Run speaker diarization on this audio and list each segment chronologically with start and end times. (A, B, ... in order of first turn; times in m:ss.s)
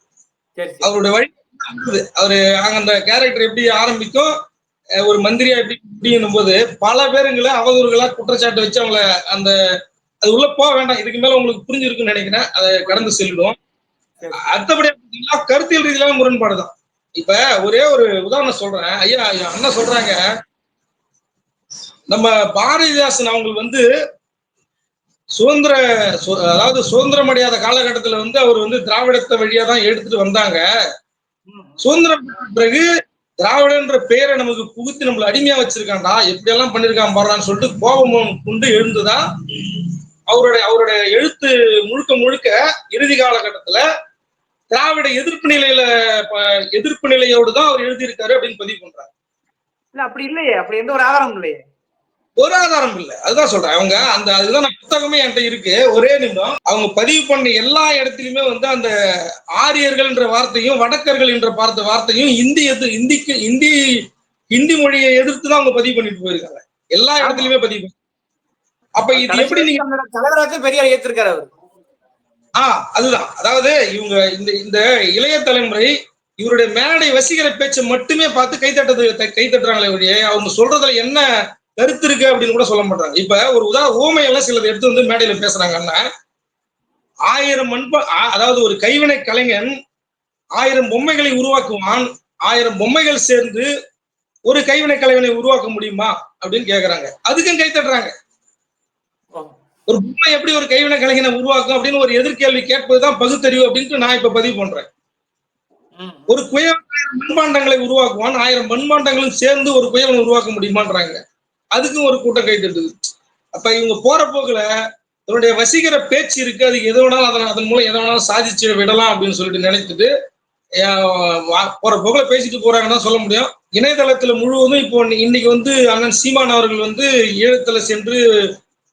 0:00.6-0:00.9 A
0:00.8-0:04.3 B
0:05.0-0:09.5 B
0:10.2-0:13.6 B
0:12.8-0:13.2 A
0:14.2-0:14.5 A
0:14.4-0:20.2 B
0:22.1-0:23.8 B
0:25.4-0:30.6 B
0:31.5-0:31.9 A
0:31.8-0:32.9 B
0:33.4-0:43.8 B
0:44.7-0:49.1 B
0:50.0-0:51.6 A
0:52.4-0:58.9 B
0:59.6-1:03.7 B
1:04.5-1:07.9 B
1:07.2-1:07.5 A
1:09.0-1:09.8 B
1:09.1-1:11.5 A
1:12.6-1:21.2 B
1:21.8-1:26.0 B
1:27.3-1:29.7 B
1:30.6-1:33.7 B
1:34.5-1:38.1 B
1:39.9-1:44.9 B
1:46.0-1:46.4 A
1:46.3-1:51.2 B
1:51.7-1:52.9 B
1:53.5-1:54.7 B
1:55.3-2:00.1 B
2:00.8-2:08.2 B